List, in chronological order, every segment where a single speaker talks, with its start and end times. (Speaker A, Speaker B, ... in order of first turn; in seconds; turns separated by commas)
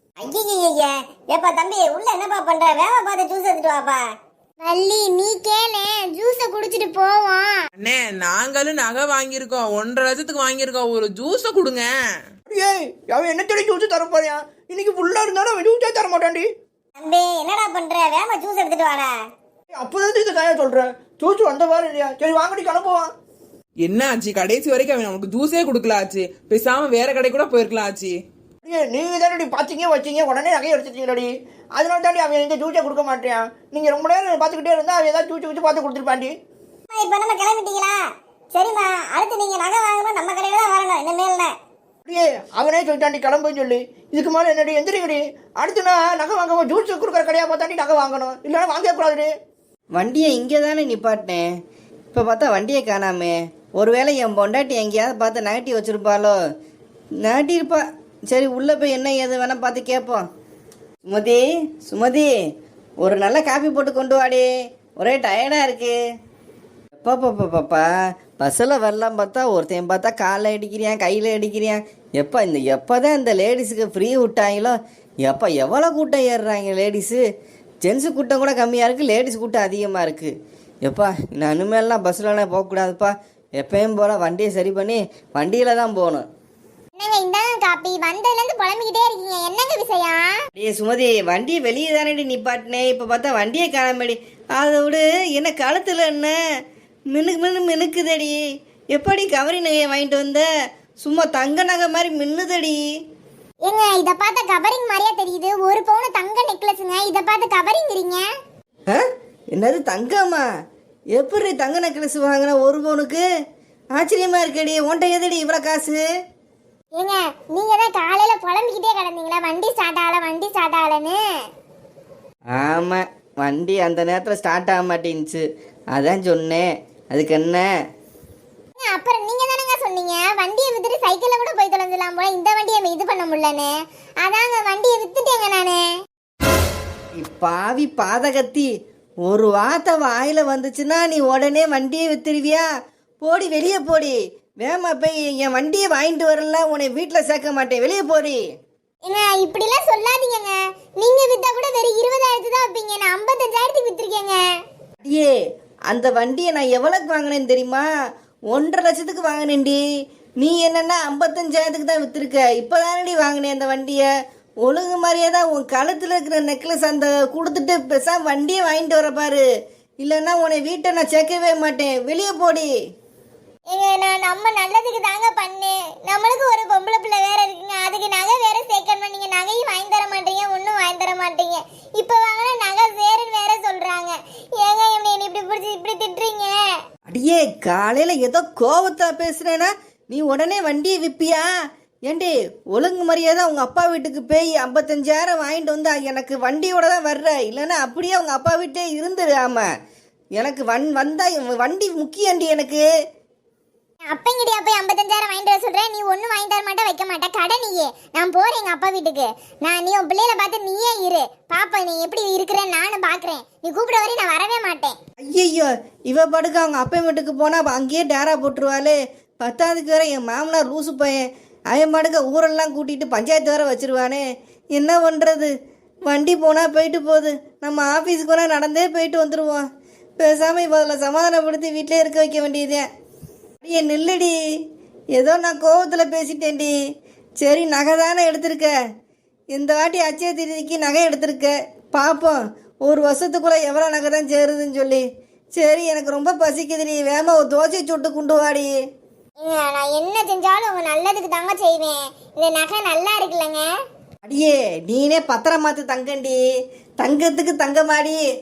Speaker A: 0.2-4.0, Speaker B: 4.6-7.7, Speaker C: 7.8-11.9, Speaker D: 12.5-16.5, Speaker A: 17.0-19.2, Speaker D: 19.8-23.1, Speaker C: 23.9-28.2, Speaker D: 28.6-36.3, Speaker A: 36.9-38.0, Speaker A: 38.5-41.5, Speaker D: 42.1-49.3, Speaker E: 50.0-51.5, Speaker E: 52.1-56.4, Speaker E: 57.2-60.2, Speaker E: 61.1-62.3, Speaker E: 63.0-64.5, Speaker E: 65.0-66.0, Speaker E: 67.0-77.2, Speaker E: 77.8-80.3, Speaker E: 80.8-86.3, Speaker B: 87.0-90.4, Speaker E: 90.6-96.4, Speaker E: 97.1-98.4, Speaker E: 98.9-100.5, Speaker E: 101.0-102.8, Speaker B: 103.6-108.3, Speaker E: 108.9-110.5, Speaker E: 111.1-113.2, Speaker E: 114.0-116.0, Speaker B: 117.0-121.2, Speaker E: 122.5-127.7, Speaker B: 128.8-135.9, Speaker E: 137.2-138.7, Speaker E: 139.3-142.7, Speaker E: 143.2-148.4, Speaker B: 149.1-154.6, Speaker E: 155.0-155.3, Speaker E: 155.9-157.9, Speaker E: 158.5-159.8, Speaker E: 160.4-164.1, Speaker E: 164.6-169.4, Speaker E: 170.0-172.7, Speaker B: 173.7-186.6, Speaker E: 187.1-191.5, Speaker E: 192.1-199.7, Speaker E: 200.4-202.8, Speaker B: 204.1-215.0, Speaker E: 215.2-224.2, Speaker E: 224.8-225.5, Speaker E: 226.1-229.7, Speaker E: 230.2-232.9, Speaker E: 233.6-234.3, Speaker E: 235.2-236.7, Speaker E: 237.4-238.7, Speaker E: 239.5-245.0, Speaker E: 245.6-248.7, Speaker B: 249.4-253.7, Speaker E: 254.2-256.4, Speaker E: 257.0-258.2